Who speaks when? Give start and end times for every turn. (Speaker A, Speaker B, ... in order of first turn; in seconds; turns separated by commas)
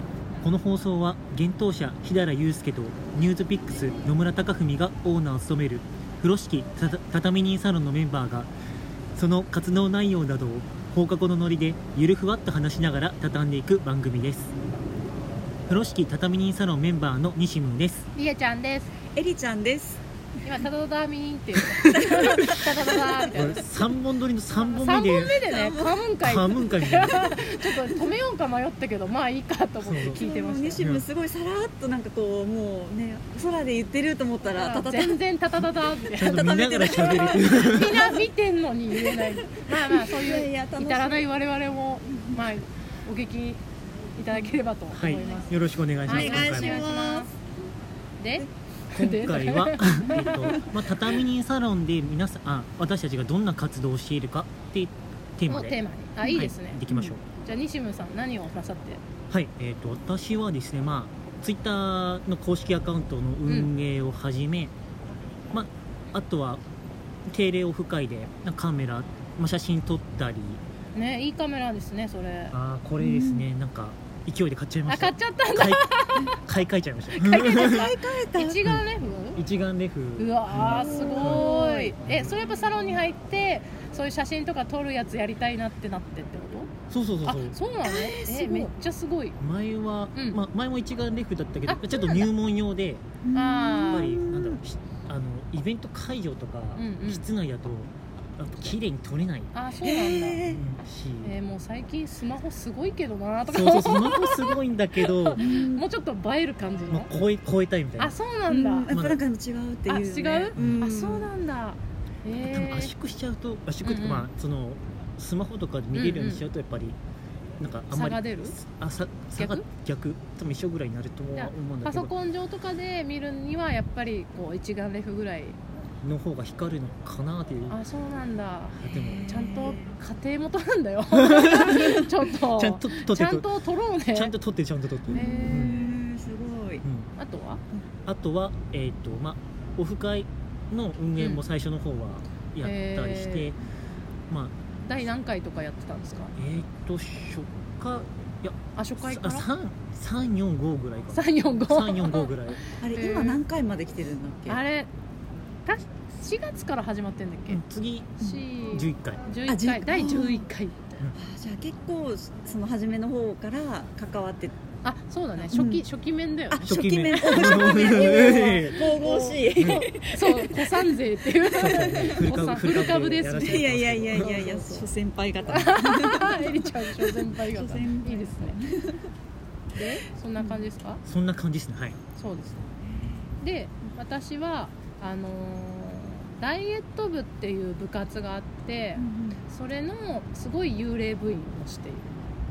Speaker A: 0.4-8.5, Speaker A: 9.1-14.5, Speaker A: 15.7-18.0, Speaker B: 18.1-18.9, Speaker C: 19.1-20.6, Speaker B: 20.4-23.7, Speaker C: 21.9-23.1, Speaker A: 23.3-25.4, Speaker B: 24.6-30.8, Speaker C: 25.4-26.0, Speaker A: 26.2-27.4, Speaker A: 29.8-30.2, Speaker C: 30.1-35.2, Speaker A: 30.8-31.0, Speaker B: 34.4-43.6, Speaker A: 36.2-38.0, Speaker C: 36.3-38.2, Speaker C: 38.9-41.3, Speaker C: 42.1-42.5, Speaker B: 44.2-47.3, Speaker A: 44.9-46.8, Speaker C: 46.0-47.3, Speaker B: 48.2-50.6, Speaker A: 48.9-55.8, Speaker B: 55.5-56.8, Speaker C: 56.2-57.1, Speaker A: 56.3-57.2, Speaker B: 57.4-59.0, Speaker A: 59.3-64.7, Speaker B: 63.5-63.7, Speaker A: 65.5-66.6, Speaker A: 67.3-70.6, Speaker B: 70.9-72.5, Speaker A: 72.5-77.8, Speaker C: 73.0-73.5, Speaker B: 74.9-76.4, Speaker C: 77.2-78.7, Speaker B: 77.5-79.4, Speaker A: 79.3-81.5, Speaker B: 80.2-86.7, Speaker C: 80.6-82.7, Speaker A: 82.0-82.4, Speaker A: 86.9-87.6, Speaker B: 87.2-89.4, Speaker C: 87.8-88.7, Speaker A: 89.4-93.0, Speaker B: 90.1-90.4, Speaker B: 91.7-92.3, Speaker C: 93.2-94.6, Speaker B: 93.3-94.1, Speaker A: 93.9-99.5, Speaker B: 96.8-97.2, Speaker B: 99.5-100.4, Speaker C: 99.8-100.6, Speaker A: 100.5-101.3, Speaker B: 101.2-107.1, Speaker A: 103.5-105.4, Speaker C: 105.4-105.8, Speaker A: 106.9-108.2, Speaker B: 108.0-108.9, Speaker C: 108.5-111.3, Speaker A: 108.9-109.2, Speaker B: 109.9-112.9, Speaker A: 110.5-110.8, Speaker A: 112.3-117.0, Speaker B: 113.8-114.3, Speaker B: 115.9-116.4, Speaker A: 117.6-122.1, Speaker B: 117.9-118.5, Speaker B: 119.3-119.6, Speaker B: 121.3-125.6, Speaker A: 126.0-127.8, Speaker B: 127.7-134.3, Speaker A: 128.8-129.3, Speaker C: 128.9-129.9, Speaker A: 131.2-133.4, Speaker A: 134.1-135.8, Speaker B: 135.1-136.0, Speaker C: 135.1-136.8, Speaker A: 136.8-137.1, Speaker B: 137.2-137.6, Speaker A: 138.1-143.6, Speaker B: 141.2-141.4, Speaker B: 142.6-143.5, Speaker A: 144.3-144.5, Speaker B: 144.8-146.3, Speaker A: 146.4-152.6, Speaker B: 148.8-149.5, Speaker B: 151.1-153.4, Speaker C: 152.8-154.6, Speaker B: 154.5-154.9, Speaker B: 155.7-157.6, Speaker A: 157.5-159.2, Speaker B: 158.2-161.0, Speaker C: 159.5-160.4, Speaker C: 161.1-164.6, Speaker B: 164.8-174.9, Speaker C: 165.5-165.8, Speaker C: 166.5-171.0, Speaker A: 166.6-168.8, Speaker A: 169.6-169.9, Speaker A: 171.5-174.3, Speaker C: 173.3-179.1, Speaker B: 175.4-178.6, Speaker B: 179.7-181.0, Speaker C: 180.4-180.6, Speaker A: 181.0-182.0, Speaker B: 182.2-182.7, Speaker C: 182.8-183.2, Speaker B: 183.4-192.2, Speaker C: 188.9-189.4